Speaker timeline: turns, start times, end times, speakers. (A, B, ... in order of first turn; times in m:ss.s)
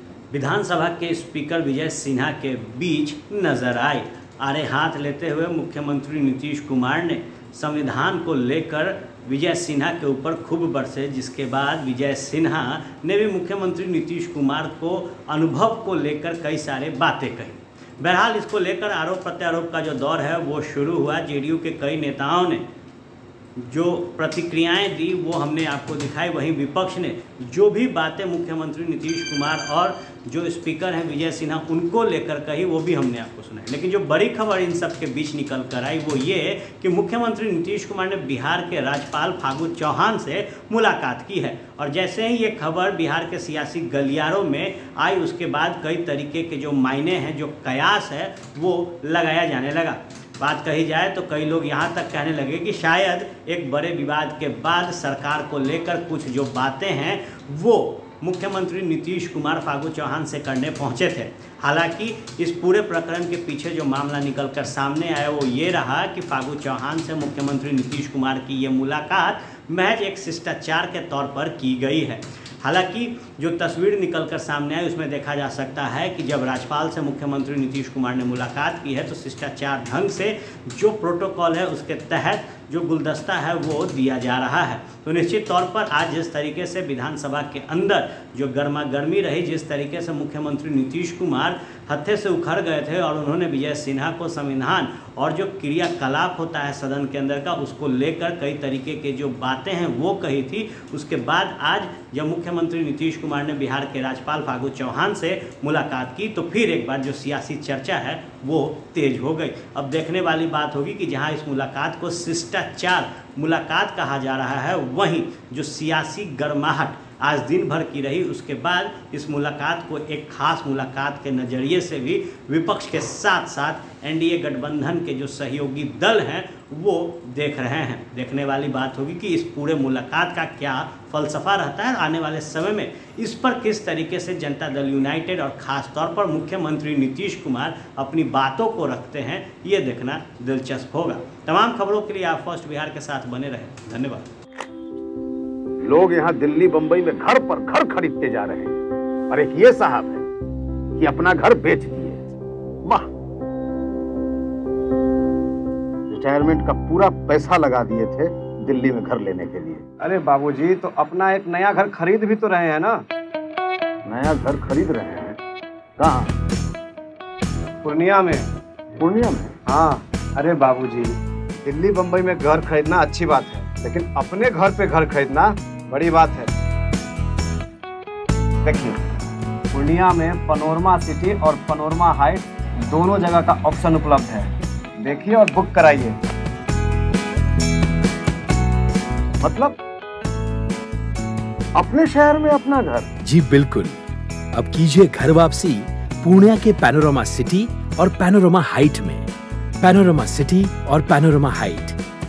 0:00.3-0:22.6 A
0:23.6-2:24.2 A
2:25.8-2:28.8 B
2:29.3-2:30.2 B
2:31.0-2:32.3 B
2:32.8-2:33.1 B
2:36.1-2:39.8 B
2:40.0-2:43.0 C
2:44.0-2:45.4 B
2:46.0-2:46.3 B
2:47.8-2:48.5 C
2:49.0-2:49.6 B
2:49.7-2:51.1 C
2:51.6-2:56.5 C
2:58.6-2:59.0 C
2:59.7-3:06.2 C
3:09.4-3:09.8 B
3:11.7-3:13.1 B
3:13.2-3:14.0 D
3:14.5-3:19.3 D
3:19.8-3:22.0 D